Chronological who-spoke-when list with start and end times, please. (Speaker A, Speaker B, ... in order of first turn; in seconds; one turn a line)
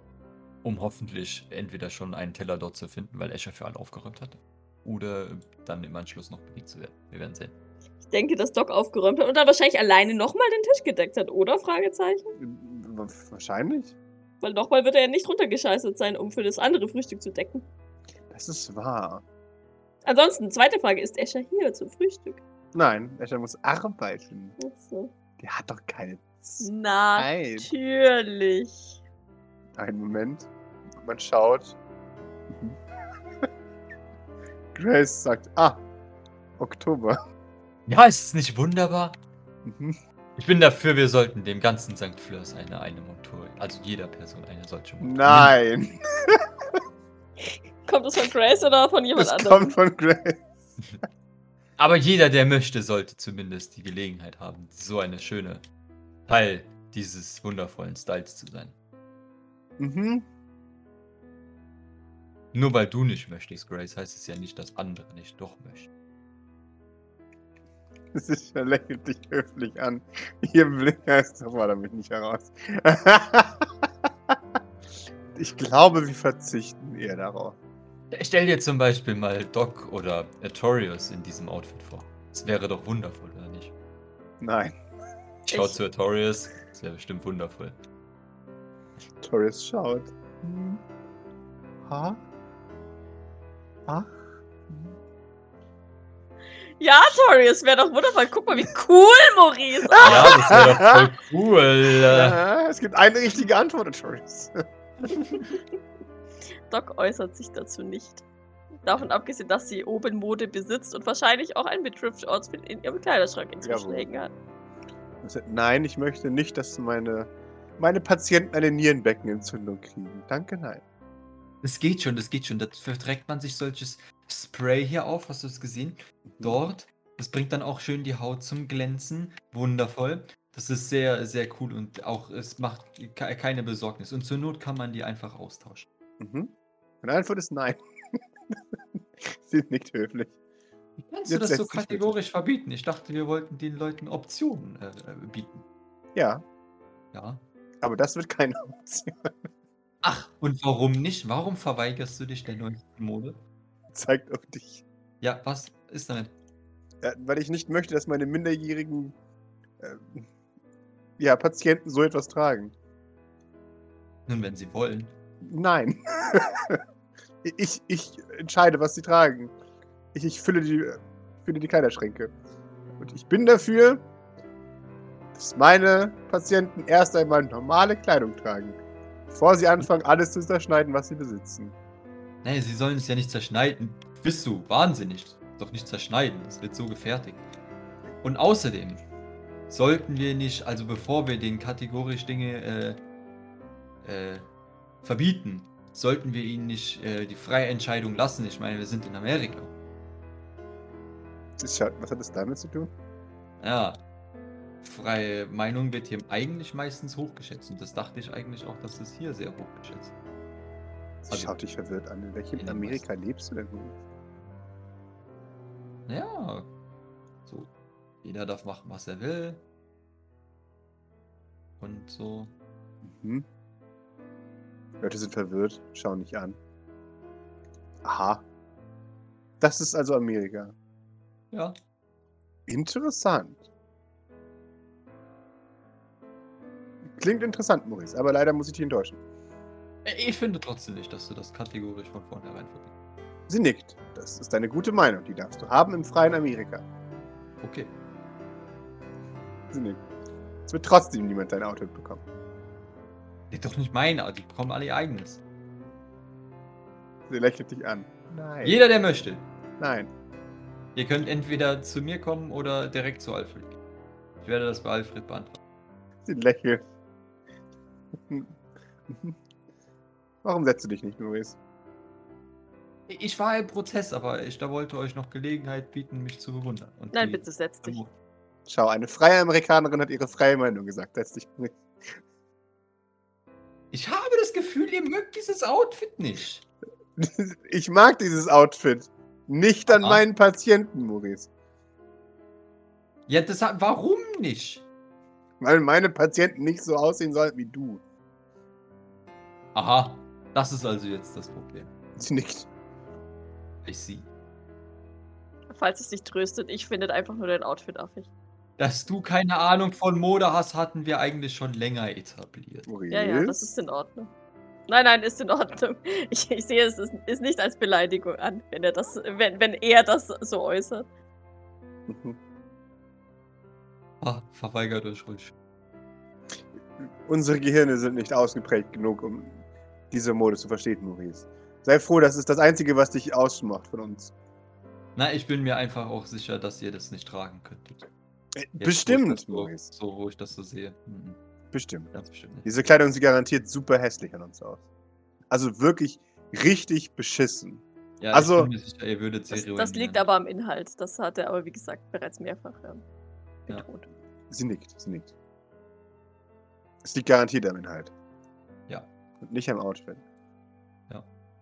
Speaker A: 0.6-7.5
Speaker B: 8.0-12.3
Speaker C: 12.4-13.9
Speaker B: 14.4-17.6
Speaker C: 18.3-19.2
Speaker B: 20.1-22.4
Speaker C: 22.7-24.6
Speaker B: 24.6-25.1
Speaker C: 25.4-27.7
Speaker B: 26.6-29.0
Speaker C: 29.8-31.8
Speaker C: 32.5-32.8
Speaker C: 34.7-35.8
Speaker C: 36.6-37.2
Speaker A: 37.9-39.1
Speaker C: 39.6-40.0
Speaker A: 40.4-45.5
Speaker C: 45.0-46.8
Speaker B: 47.8-49.8
Speaker C: 49.1-50.5
Speaker A: 51.8-55.6
Speaker A: 56.3-58.8
Speaker C: 59.8-60.3
Speaker A: 62.5-65.9
Speaker C: 68.1-74.4
Speaker C: 75.3-77.6
Speaker A: 78.1-83.7
Speaker C: 84.4-84.7
Speaker A: 85.5-87.7
Speaker C: 89.2-90.8
Speaker C: 91.8-92.2
Speaker C: 93.9-94.2
Speaker C: 94.7-95.0
Speaker B: 96.8-100.6
Speaker C: 99.9-101.0
Speaker A: 100.0-102.4
Speaker C: 102.0-104.5
Speaker B: 106.7-108.2
Speaker B: 108.8-114.3
Speaker C: 113.6-114.1
Speaker C: 115.2-120.8
Speaker A: 121.6-135.8
Speaker C: 126.3-126.6
Speaker C: 136.2-140.3
Speaker A: 141.1-145.6
Speaker C: 141.2-142.1
Speaker C: 146.1-146.4
Speaker A: 147.1-147.4
Speaker C: 147.8-149.3
Speaker A: 150.0-153.4
Speaker C: 153.9-154.8
Speaker A: 155.2-156.3
Speaker C: 157.0-159.2
Speaker C: 159.8-160.3
Speaker C: 161.2-162.7
Speaker A: 164.3-165.1
Speaker C: 165.4-166.8
Speaker C: 167.4-169.5
Speaker C: 170.1-172.3
Speaker C: 173.0-174.0
Speaker C: 175.3-181.7
Speaker A: 182.4-187.4
Speaker A: 188.2-189.0
Speaker A: 189.7-193.0
Speaker A: 194.0-194.5
Speaker A: 195.0-199.7
Speaker C: 201.6-202.9
Speaker A: 203.6-204.0
Speaker A: 204.8-210.1
Speaker C: 211.2-214.0
Speaker A: 212.6-213.0
Speaker A: 216.1-216.7
Speaker A: 218.2-219.6
Speaker A: 221.8-222.5
Speaker C: 223.0-223.4
Speaker C: 225.0-226.6
Speaker C: 228.0-228.4
Speaker C: 229.6-230.7
Speaker C: 232.7-233.7
Speaker C: 237.1-239.2
Speaker A: 240.0-242.9
Speaker C: 243.5-246.8
Speaker A: 247.6-247.9
Speaker C: 249.7-250.0
Speaker C: 250.7-252.2
Speaker A: 253.5-255.4
Speaker C: 257.3-258.8
Speaker A: 258.6-259.5
Speaker C: 259.8-260.1
Speaker A: 260.9-263.8
Speaker A: 264.4-265.6
Speaker C: 266.2-266.9
Speaker C: 268.2-269.4
Speaker C: 270.4-271.6
Speaker A: 273.1-278.1
Speaker B: 277.1-278.0
Speaker C: 278.7-282.1
Speaker A: 283.9-286.6
Speaker C: 287.2-291.5
Speaker A: 289.9-290.2
Speaker A: 293.3-294.8
Speaker C: 295.6-298.0
Speaker A: 299.7-301.9
Speaker C: 302.1-302.7
Speaker A: 303.8-304.3
Speaker B: 305.7-308.3
Speaker A: 308.8-312.9
Speaker C: 312.9-313.7
Speaker B: 313.1-314.3
Speaker B: 314.9-321.1
Speaker C: 322.1-322.4
Speaker A: 324.2-325.5
Speaker C: 327.0-334.3
Speaker A: 335.1-338.1
Speaker C: 338.6-339.9
Speaker A: 338.8-341.4
Speaker C: 341.7-344.9
Speaker A: 342.1-342.7
Speaker C: 345.5-348.7
Speaker A: 348.2-350.2
Speaker B: 349.5-353.0
Speaker B: 353.7-354.1
Speaker C: 354.5-355.3
Speaker C: 357.0-358.1
Speaker C: 359.4-360.2